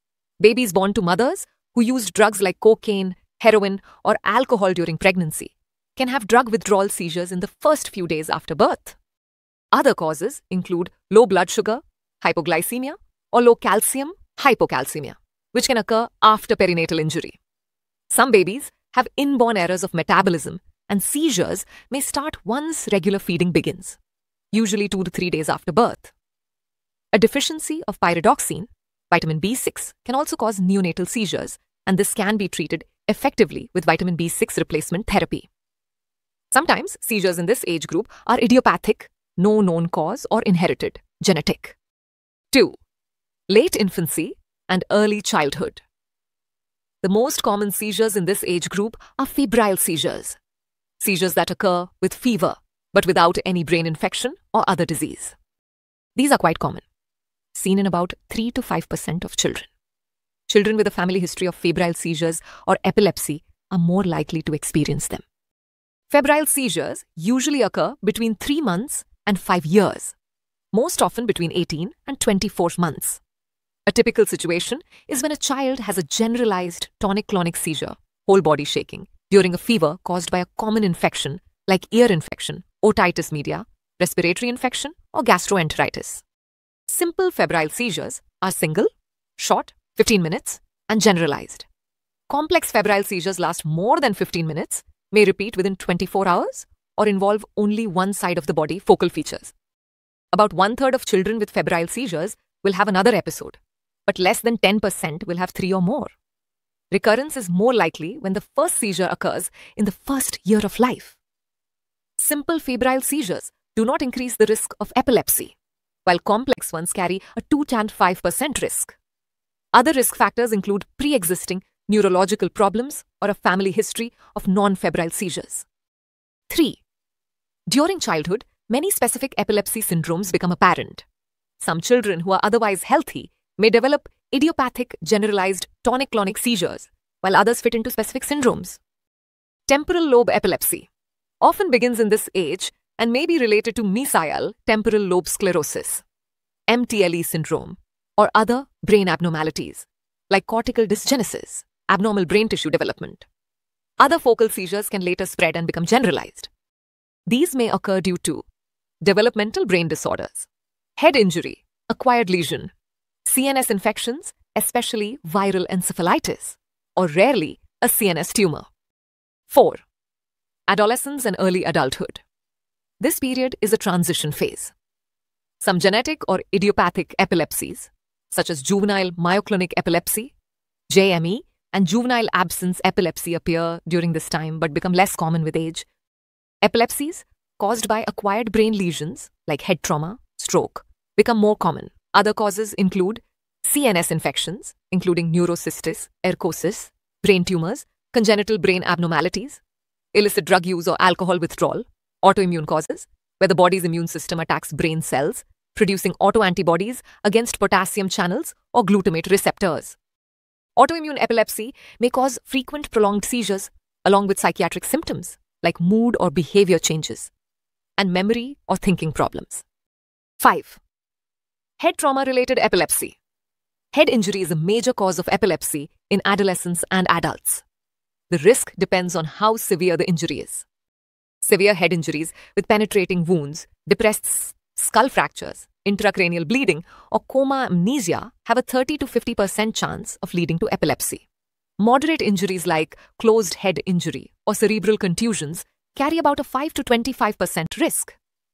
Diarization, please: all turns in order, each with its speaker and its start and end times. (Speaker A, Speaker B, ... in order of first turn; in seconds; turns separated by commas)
Speaker A: 0.4-9.0, Speaker A: 9.7-17.4, Speaker A: 18.1-24.0, Speaker A: 24.5-26.1, Speaker A: 27.1-35.5, Speaker A: 36.5-41.8, Speaker A: 42.5-42.8, Speaker A: 43.5-45.8, Speaker A: 47.0-50.4, Speaker A: 51.0-55.4, Speaker A: 56.2-56.8, Speaker A: 57.5-59.7, Speaker A: 60.5-65.2, Speaker A: 66.1-70.2, Speaker A: 70.7-73.2, Speaker A: 73.9-86.2, Speaker A: 86.9-91.7, Speaker A: 92.3-99.5, Speaker A: 100.3-106.1, Speaker A: 106.9-111.2, Speaker A: 112.2-115.5, Speaker A: 116.1-119.0, Speaker A: 119.7-125.7, Speaker A: 126.5-126.8, Speaker A: 127.7-131.1, Speaker A: 131.6-138.8, Speaker A: 139.7-140.9, Speaker A: 141.4-146.0, Speaker A: 146.7-153.3, Speaker A: 154.0-156.5, Speaker A: 157.3-158.5, Speaker A: 159.0-162.7, Speaker A: 163.3-168.7, Speaker A: 169.5-169.8, Speaker A: 170.7-172.2, Speaker A: 173.0-174.7, Speaker A: 175.6-180.3, Speaker A: 180.9-185.9, Speaker A: 186.6-199.6, Speaker A: 200.1-210.0, Speaker A: 210.8-217.3, Speaker A: 218.0-219.6, Speaker A: 220.4-220.8, Speaker A: 221.8-223.2, Speaker A: 223.9-227.6, Speaker A: 228.3-230.7, Speaker A: 231.4-241.2, Speaker A: 241.8-248.2